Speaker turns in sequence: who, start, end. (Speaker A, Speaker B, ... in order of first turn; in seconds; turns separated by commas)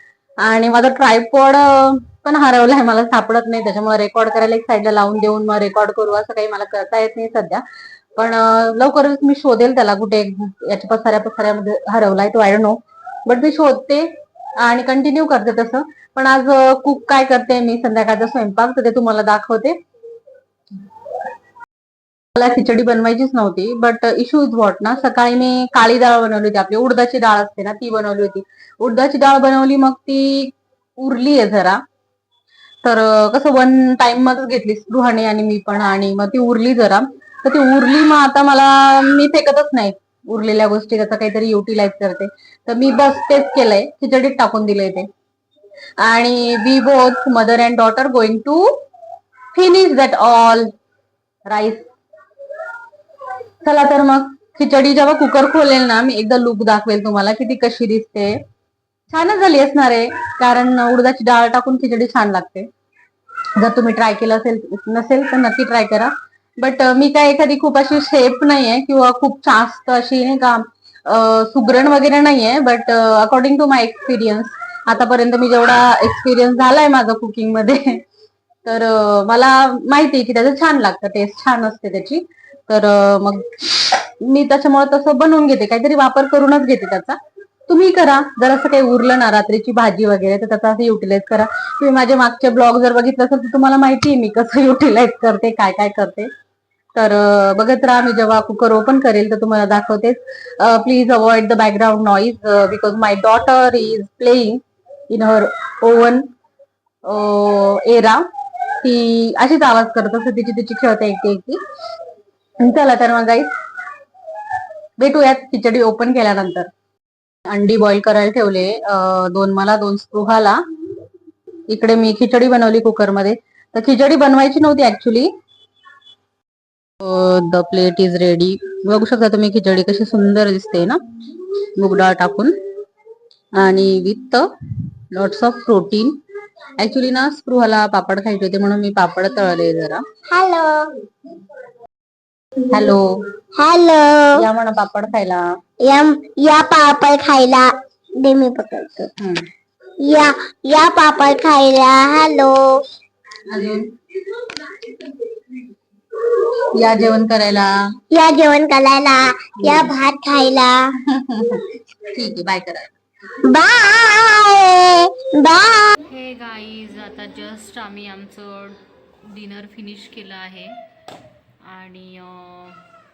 Speaker A: 0.4-7.6, Speaker A: 8.2-19.8, Speaker A: 22.4-31.8, Speaker A: 32.8-45.1, Speaker A: 46.0-48.7, Speaker A: 49.5-50.7, Speaker A: 51.5-51.9, Speaker A: 53.6-58.4, Speaker A: 59.1-62.7, Speaker A: 63.6-78.0, Speaker A: 78.7-96.3, Speaker A: 97.0-106.2, Speaker A: 107.0-108.3, Speaker A: 108.8-111.6, Speaker A: 112.6-113.5, Speaker A: 115.0-116.7, Speaker A: 117.5-120.6, Speaker A: 121.7-125.3, Speaker A: 127.0-131.0, Speaker A: 131.8-132.5, Speaker A: 133.6-134.5, Speaker A: 135.1-136.2, Speaker A: 136.8-140.1, Speaker B: 140.3-140.9, Speaker A: 142.7-143.1, Speaker B: 143.6-144.4, Speaker A: 144.3-145.5, Speaker B: 145.8-149.1, Speaker B: 150.0-152.7, Speaker A: 153.5-153.9, Speaker A: 156.7-157.7, Speaker B: 158.1-160.9, Speaker A: 159.6-159.9, Speaker A: 161.1-162.9, Speaker B: 163.4-166.0, Speaker C: 166.1-168.8, Speaker C: 169.3-170.8, Speaker C: 171.7-172.8